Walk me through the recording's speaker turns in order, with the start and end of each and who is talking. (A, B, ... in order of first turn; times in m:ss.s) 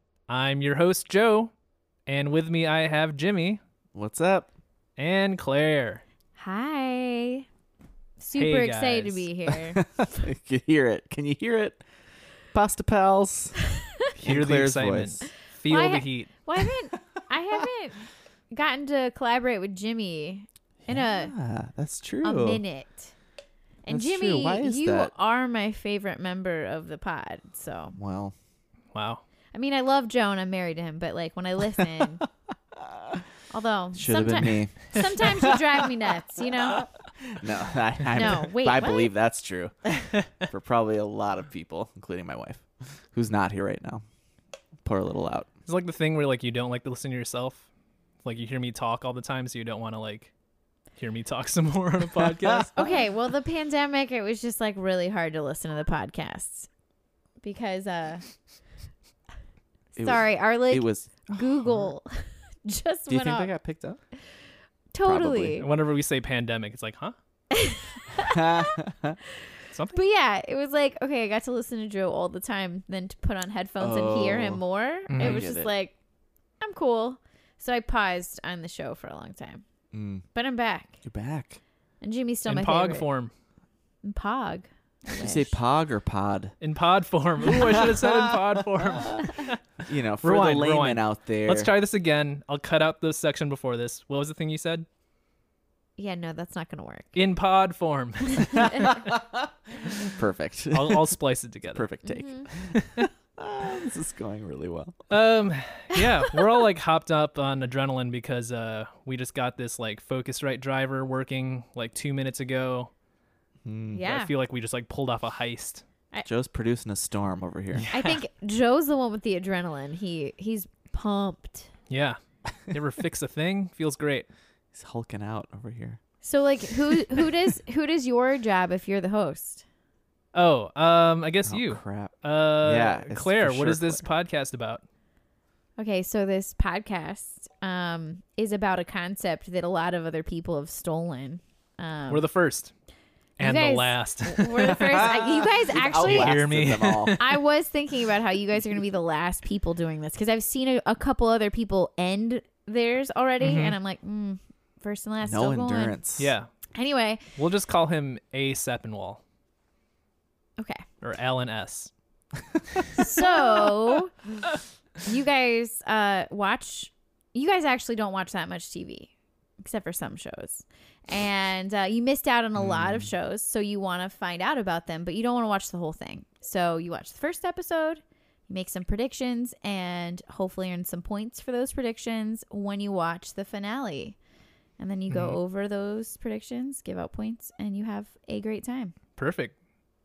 0:00.3-0:01.5 A
0:02.1-0:03.6 A
0:03.9-0:04.5 B
0:05.0-0:06.0 A
0:06.4-0:07.5 C
0:08.2-0:09.8 C
0:08.4-0:09.3 A
0:09.7-0:11.8 B
0:12.5-0:13.6 B
0:14.2-0:16.3 A
0:14.2-0:15.2 B
0:15.7-0:21.3 C
0:20.8-0:22.6 B
0:22.2-0:23.1 C
0:23.8-0:28.0 C
0:23.9-0:25.1 B
0:28.0-0:28.4 B
0:28.9-0:29.2 A
0:29.5-0:32.2 C
0:32.8-0:33.2 B
0:33.5-0:36.9 C
0:33.9-0:35.9 B
0:36.7-0:44.0 B
0:38.1-0:39.1 C
0:44.8-0:45.5 B
0:45.7-0:47.6 A
0:48.2-0:50.3 A
0:51.0-0:52.8 A
0:52.2-0:52.8 B
0:52.8-0:56.7 C
0:57.4-0:58.3 C
1:00.0-1:01.9 B
1:00.0-1:03.5 C
1:03.1-1:04.0 B
1:04.9-1:05.7 C
1:05.0-1:05.6 B
1:05.6-1:07.2 A
1:07.5-1:08.7 C
1:08.1-1:09.2 B
1:09.7-1:10.0 A
1:09.9-1:16.0 C
1:13.8-1:14.6 B
1:15.1-1:15.4 A
1:15.2-1:15.7 B
1:16.6-1:19.6 C
1:19.9-1:20.2 B
1:20.4-1:21.0 C
1:21.0-1:21.6 B
1:22.0-1:23.1 C
1:22.4-1:23.3 A
1:24.0-1:25.6 C
1:25.2-1:26.6 B
1:26.6-1:29.6 A
1:27.5-1:31.7 B
1:30.2-1:34.9 A
1:36.0-1:37.1 C
1:37.2-1:39.0 A
1:38.6-1:41.2 B
1:40.7-1:41.9 A
1:41.7-1:45.0 B
1:42.0-1:42.5 C
1:45.1-1:52.9 A
1:53.6-1:54.0 B
1:53.9-1:54.3 C
1:54.0-1:55.8 A
1:56.2-1:57.9 B
1:57.8-1:58.1 A
1:57.9-2:01.7 C
2:01.9-2:04.3 A
2:04.7-2:06.0 B
2:06.2-2:09.6 C
2:10.3-2:14.8 A
2:11.4-2:14.1 B
2:15.8-2:22.3 C
2:22.1-2:22.7 A
2:23.4-2:25.1 A
2:23.4-2:26.4 C
2:24.7-2:27.2 B
2:25.8-2:27.4 A
2:27.2-2:36.0 C
2:33.4-2:33.8 A
2:35.2-2:36.3 B
2:36.2-2:36.5 A
2:36.8-2:37.2 C
2:37.4-2:39.2 A
2:40.6-2:40.8 C
2:41.0-2:41.9 A
2:43.0-2:44.2 C
2:43.0-2:43.7 A
2:45.0-3:04.2 C
2:52.6-2:53.1 B
3:04.8-3:09.0 C
3:05.1-3:05.4 A
3:09.2-3:09.6 A